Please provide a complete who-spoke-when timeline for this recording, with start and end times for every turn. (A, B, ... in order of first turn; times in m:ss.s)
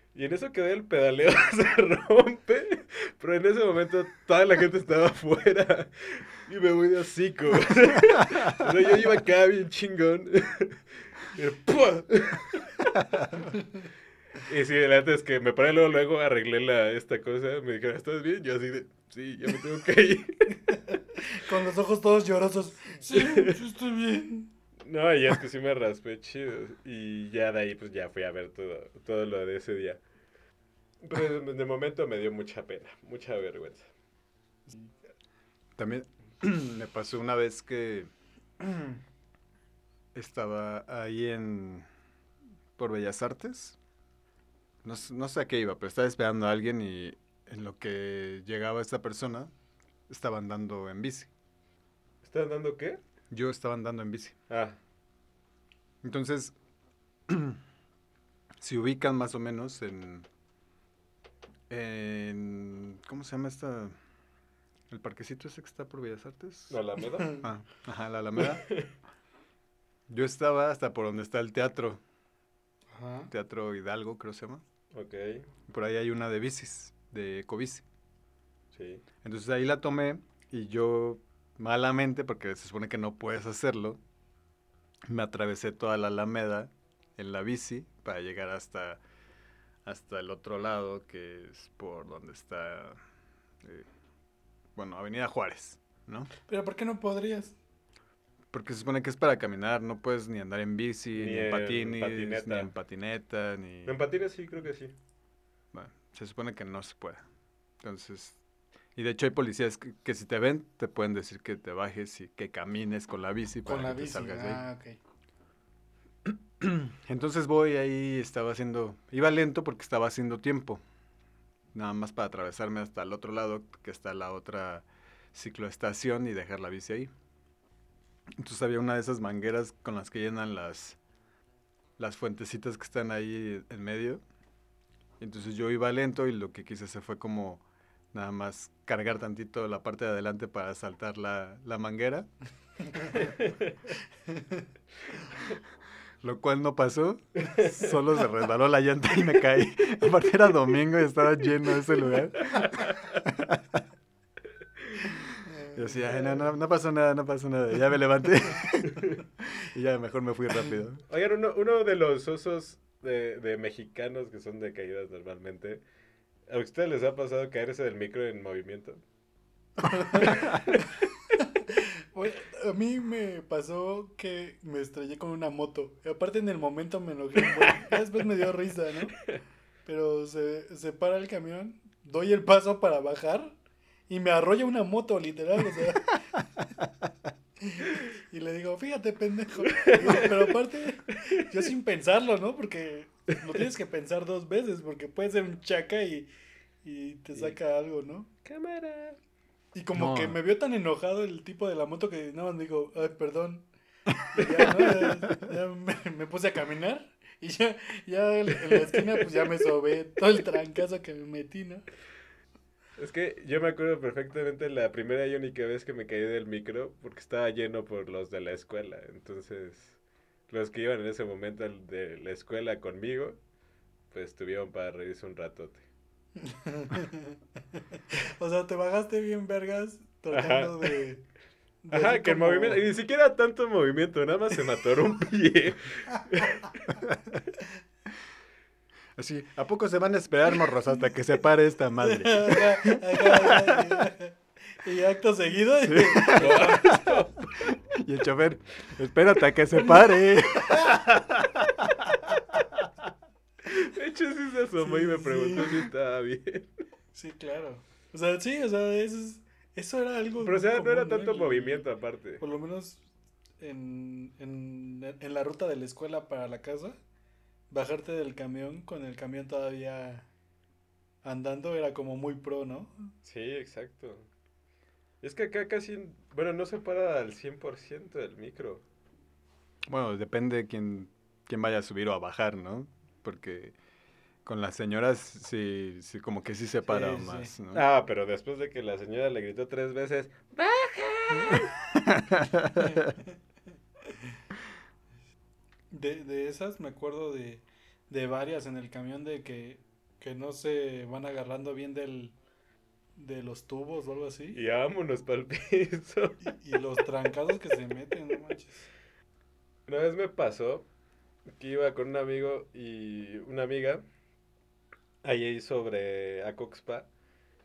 0:00.2-0:13.6 A
0:14.4-0:20.6 A
0:20.7-0:24.5 B
0:23.0-0:23.6 A
0:24.8-0:30.0 A
0:31.0-0:33.9 A
0:35.8-0:39.0 C
0:40.1-0:41.9 C
0:42.8-0:43.8 C
0:44.8-0:49.5 C
0:50.1-0:51.3 C
0:52.2-0:53.0 A
0:53.3-0:54.4 C
0:54.5-0:54.8 A
0:56.0-0:56.6 C
0:57.3-0:57.6 C
0:58.6-1:00.3 C
1:01.7-1:04.0 C
1:04.9-1:06.8 C
1:06.7-1:07.4 A
1:07.4-1:08.7 C
1:08.4-1:08.9 A
1:10.1-1:12.0 C
1:12.9-1:13.3 B
1:13.3-1:14.6 C
1:14.9-1:15.5 A
1:15.7-1:17.8 C
1:18.7-1:19.0 A
1:19.2-1:24.0 C
1:25.1-1:29.0 C
1:29.8-1:33.0 C
1:33.6-1:33.9 C
1:34.8-1:36.3 C
1:36.5-1:37.6 B
1:38.5-1:43.9 C
1:41.2-1:42.7 A
1:43.9-1:44.9 A
1:45.7-1:47.2 C
1:47.8-1:48.4 C
1:49.0-1:54.6 C
1:53.6-1:55.0 B
1:56.2-2:00.8 C
2:01.7-2:07.1 C
2:08.4-2:11.0 C
2:12.0-2:14.2 C
2:15.2-2:22.3 C
2:23.1-2:23.7 A
2:24.3-2:24.6 B
2:26.2-2:33.8 C
2:27.4-2:27.9 A
2:32.6-2:33.2 A
2:34.8-2:35.2 A
2:35.4-2:36.1 B
2:35.7-2:41.0 C
2:41.1-2:45.8 A
2:46.5-2:49.0 A
2:49.8-2:50.8 B
2:50.2-2:51.0 A
2:51.4-2:59.2 B
2:57.5-2:58.0 A
2:59.2-2:59.4 A
2:59.9-3:03.6 B
3:04.1-3:06.4 B
3:07.6-3:16.3 B
3:09.6-3:10.5 A
3:11.1-3:11.4 A
3:16.8-3:18.3 B
3:18.4-3:19.2 A
3:19.7-3:31.8 B
3:20.0-3:20.4 C
3:28.7-3:29.7 A
3:33.0-3:40.0 A
3:40.5-3:43.4 A
3:44.1-3:45.8 A
3:46.4-3:47.4 B
3:47.9-3:51.2 B
3:50.3-3:51.0 A
3:51.8-3:52.8 B
3:51.9-3:57.0 A
3:59.2-4:04.1 C
4:02.0-4:07.1 B
4:05.9-4:07.0 C
4:06.3-4:07.8 A
4:07.7-4:12.3 C
4:13.6-4:16.7 A
4:14.8-4:15.8 B
4:17.1-4:21.9 B
4:20.4-4:22.4 A
4:22.4-4:23.0 B
4:23.6-4:27.0 B
4:27.7-4:30.3 B
4:31.2-4:33.1 B
4:33.2-4:34.3 A
4:35.2-4:38.8 A
4:39.9-4:43.8 C
4:44.4-4:47.8 C
4:46.9-4:47.5 B
4:47.7-4:51.7 A
4:51.5-4:53.1 C
4:52.8-4:53.4 B
4:54.1-4:54.3 B
4:55.9-5:02.4 B
5:03.2-5:04.6 B
5:04.5-5:06.4 A
5:06.4-5:08.9 B
5:09.9-5:10.9 A
5:11.6-5:14.0 A
5:15.2-5:17.1 A